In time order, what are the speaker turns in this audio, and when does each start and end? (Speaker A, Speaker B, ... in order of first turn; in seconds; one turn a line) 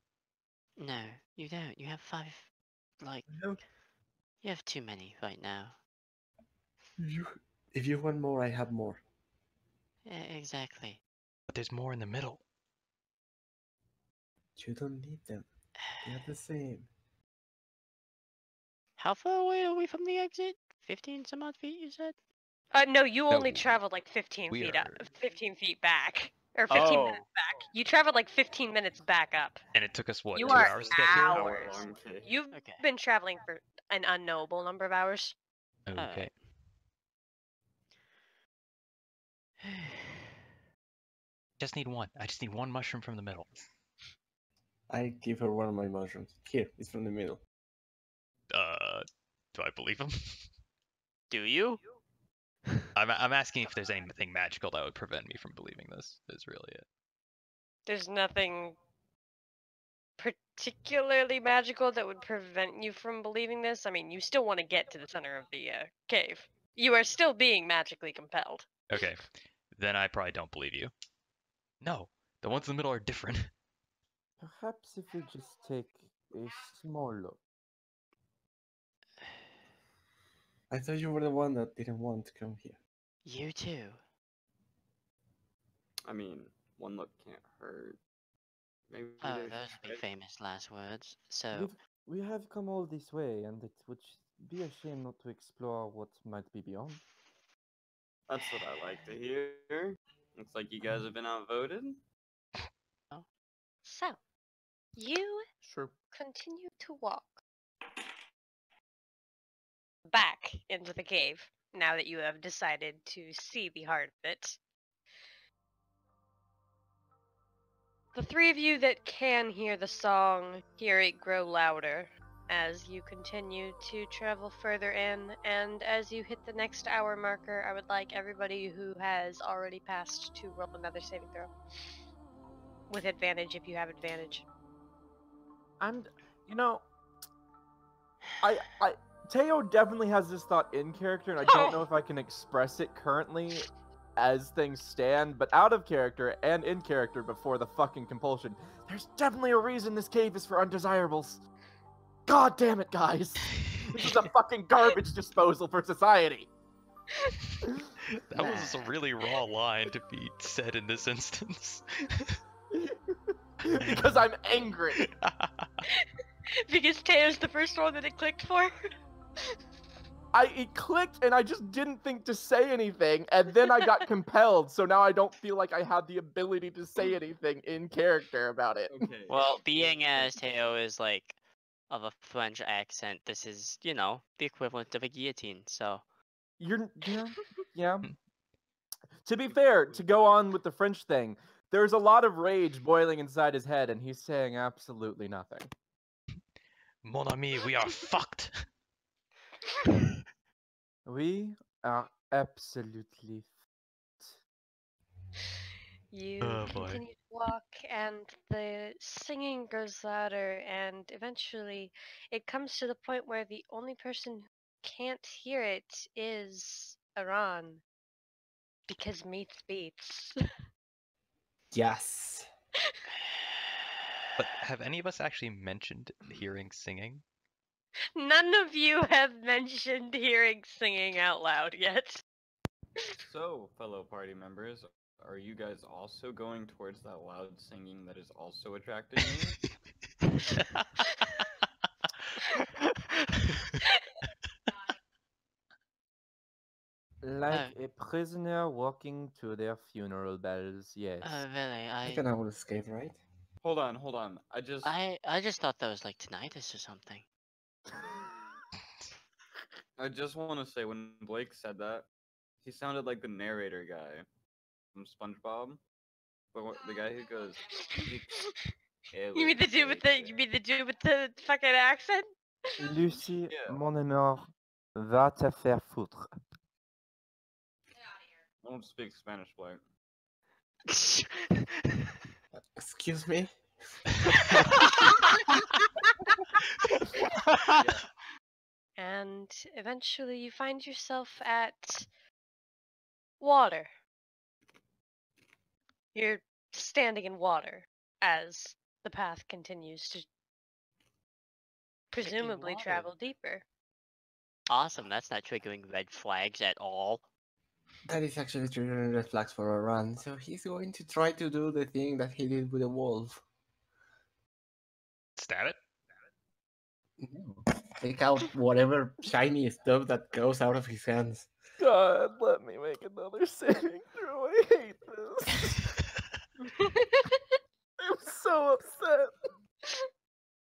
Speaker A: 0.8-2.5
Speaker A: 3.0-3.3
Speaker B: 3.3-3.6
Speaker A: 4.4-5.8
Speaker B: 7.0-9.0
Speaker A: 10.1-11.0
Speaker C: 11.5-12.4
Speaker B: 14.6-15.5
Speaker A: 16.0-16.2
Speaker B: 16.1-16.9
Speaker A: 19.0-22.1
Speaker D: 22.7-29.6
Speaker C: 23.3-23.7
Speaker C: 24.5-25.0
Speaker E: 26.7-27.2
Speaker C: 29.7-31.5
Speaker D: 30.3-35.4
Speaker E: 30.4-32.3
Speaker A: 32.5-32.8
Speaker C: 35.9-36.3
Speaker A: 36.0-36.3
Speaker A: 39.6-40.3
Speaker C: 41.6-43.5
Speaker B: 44.9-47.4
Speaker C: 48.5-50.5
Speaker A: 51.3-51.8
Speaker C: 53.0-56.9
Speaker D: 57.9-58.8
Speaker D: 60.2-68.7
Speaker C: 68.9-70.9
Speaker C: 71.8-73.5
Speaker F: 74.4-77.4
Speaker B: 80.7-82.8
Speaker A: 83.3-84.0
Speaker E: 86.0-88.0
Speaker E: 88.9-90.0
Speaker A: 89.2-91.7
Speaker F: 91.5-97.0
Speaker E: 98.3-102.0
Speaker D: 103.8-104.2
Speaker D: 105.0-105.5
Speaker F: 105.6-105.9
Speaker D: 106.1-107.4
Speaker D: 110.1-114.6
Speaker D: 118.2-131.5
Speaker D: 132.9-134.4
Speaker F: 135.8-136.8
Speaker F: 138.4-151.4
Speaker D: 141.4-141.8
Speaker F: 152.3-156.5
Speaker C: 158.1-162.4
Speaker F: 158.3-158.7
Speaker A: 158.4-158.9
Speaker F: 162.7-165.1
Speaker C: 163.8-164.3
Speaker C: 164.9-165.8
Speaker D: 166.7-168.8
Speaker F: 170.3-179.1
Speaker E: 178.9-180.4
Speaker A: 179.3-181.4
Speaker A: 181.9-186.0
Speaker F: 186.6-188.1
Speaker F: 189.2-195.7
Speaker E: 189.5-190.0
Speaker C: 197.0-198.7
Speaker F: 201.1-203.5
Speaker D: 206.1-217.8
Speaker C: 206.4-207.0
Speaker D: 218.9-220.4
Speaker B: 221.7-222.5
Speaker C: 224.4-227.2
Speaker D: 228.2-232.2
Speaker E: 233.2-239.6
Speaker C: 240.6-240.8
Speaker F: 247.2-251.4
Speaker A: 247.5-247.7
Speaker A: 251.2-252.3
Speaker B: 252.1-253.2
Speaker E: 253.6-254.9
Speaker A: 254.8-257.3
Speaker E: 260.0-262.1
Speaker E: 262.6-264.2
Speaker E: 264.9-265.8
Speaker E: 266.5-268.3
Speaker E: 269.1-270.3
Speaker D: 269.4-272.3
Speaker F: 272.8-276.3
Speaker E: 273.5-273.8
Speaker E: 278.6-279.8
Speaker A: 280.9-282.1
Speaker B: 282.8-283.6
Speaker E: 287.8-288.1
Speaker D: 289.0-292.1
Speaker D: 293.4-293.9
Speaker D: 296.1-300.3
Speaker D: 302.1-303.6
Speaker A: 302.2-303.1
Speaker A: 304.7-307.2
Speaker B: 308.1-313.4
Speaker C: 315.4-315.8
Speaker B: 317.2-321.5
Speaker F: 321.8-325.8
Speaker D: 326.8-327.4
Speaker F: 328.0-329.3